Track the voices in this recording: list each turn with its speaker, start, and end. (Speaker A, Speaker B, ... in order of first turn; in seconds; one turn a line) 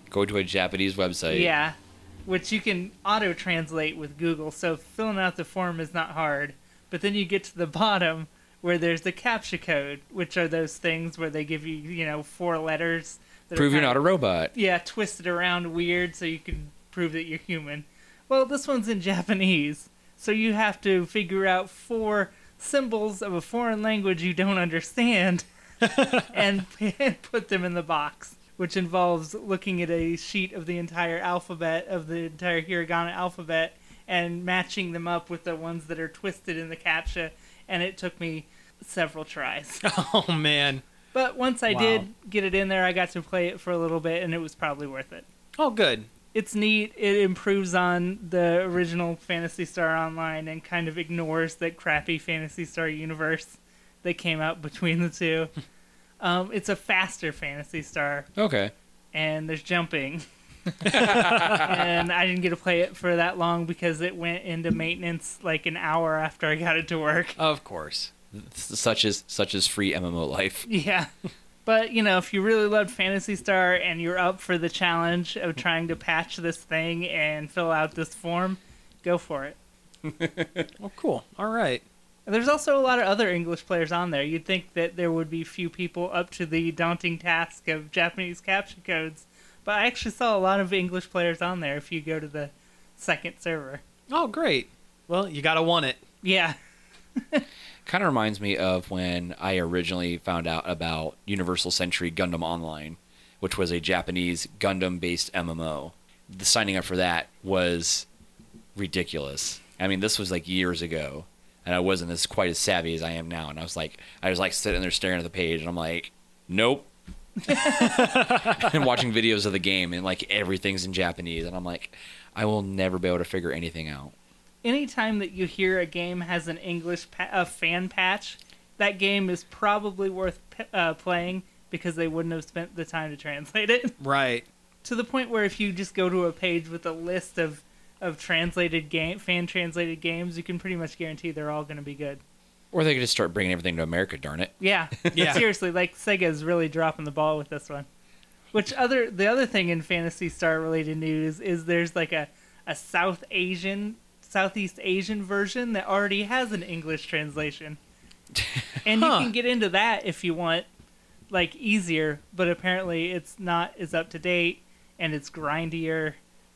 Speaker A: 0.1-1.5
Speaker B: 1.3-39.9
Speaker A: 13.5-14.5
Speaker C: 39.8-40.8
Speaker B: 41.1-45.3
Speaker C: 41.7-42.0
Speaker C: 45.6-46.1
Speaker B: 46.3-55.5
Speaker B: 56.2-58.3
Speaker A: 58.4-58.7
Speaker B: 59.1-60.2
Speaker A: 60.8-61.8
Speaker B: 60.8-67.4
Speaker C: 60.9-61.7
Speaker C: 67.4-68.1
Speaker A: 68.3-70.7
Speaker B: 70.7-71.1
Speaker B: 71.7-79.6
Speaker A: 80.0-80.7
Speaker C: 80.8-81.8
Speaker B: 82.3-93.8
Speaker C: 94.1-96.0
Speaker B: 96.2-96.5
Speaker B: 97.2-97.4
Speaker A: 97.8-108.1
Speaker A: 108.7-116.9
Speaker B: 117.5-117.9
Speaker C: 117.6-118.7
Speaker A: 118.3-124.1
Speaker B: 124.6-134.0
Speaker C: 134.0-134.4
Speaker B: 134.8-142.2
Speaker A: 142.7-145.4
Speaker B: 144.6-147.9
Speaker C: 145.1-145.4
Speaker B: 148.5-157.8
Speaker B: 158.8-160.7
Speaker C: 158.9-159.3
Speaker B: 161.3-166.2